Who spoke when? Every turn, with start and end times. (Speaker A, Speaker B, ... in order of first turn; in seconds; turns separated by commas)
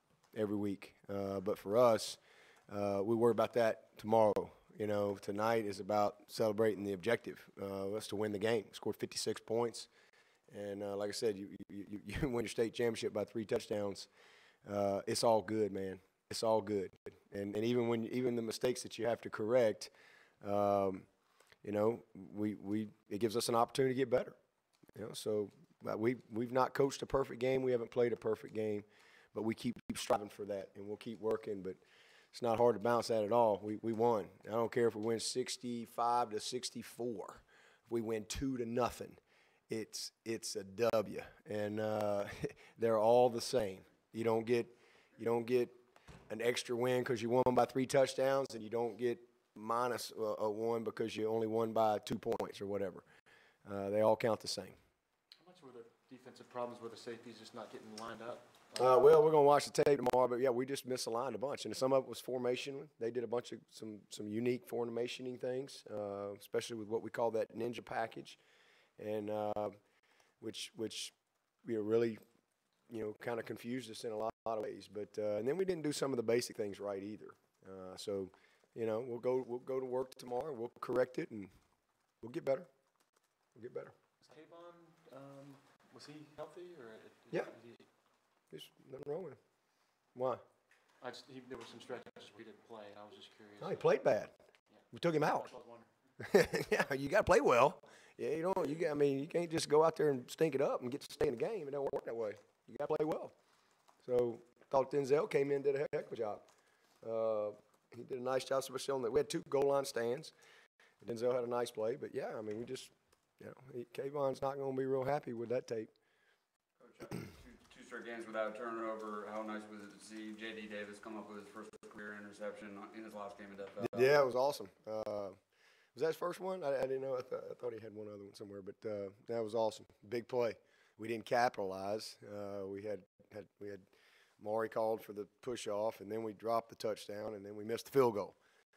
Speaker A: 0.3-9.9, Speaker A: 10.5-14.1, Speaker A: 14.7-19.9, Speaker A: 20.4-21.1, Speaker A: 21.6-24.4, Speaker A: 25.0-31.8, Speaker A: 32.3-45.7, Speaker A: 46.3-53.0, Speaker A: 53.6-54.8, Speaker B: 55.4-59.0, Speaker A: 58.8-68.4, Speaker A: 69.0-69.8, Speaker A: 70.4-72.2, Speaker A: 72.9-81.5, Speaker A: 82.2-82.7, Speaker A: 83.6-83.9, Speaker B: 84.2-87.9, Speaker A: 88.5-89.4, Speaker A: 90.2-90.4, Speaker B: 91.0-93.9, Speaker A: 93.6-94.3, Speaker B: 94.7-95.9, Speaker A: 94.9-95.5, Speaker A: 96.2-103.3, Speaker A: 104.0-106.5, Speaker A: 107.0-110.3, Speaker A: 111.0-115.9, Speaker C: 116.8-124.1, Speaker A: 123.8-125.4, Speaker A: 126.0-133.9, Speaker A: 134.4-138.4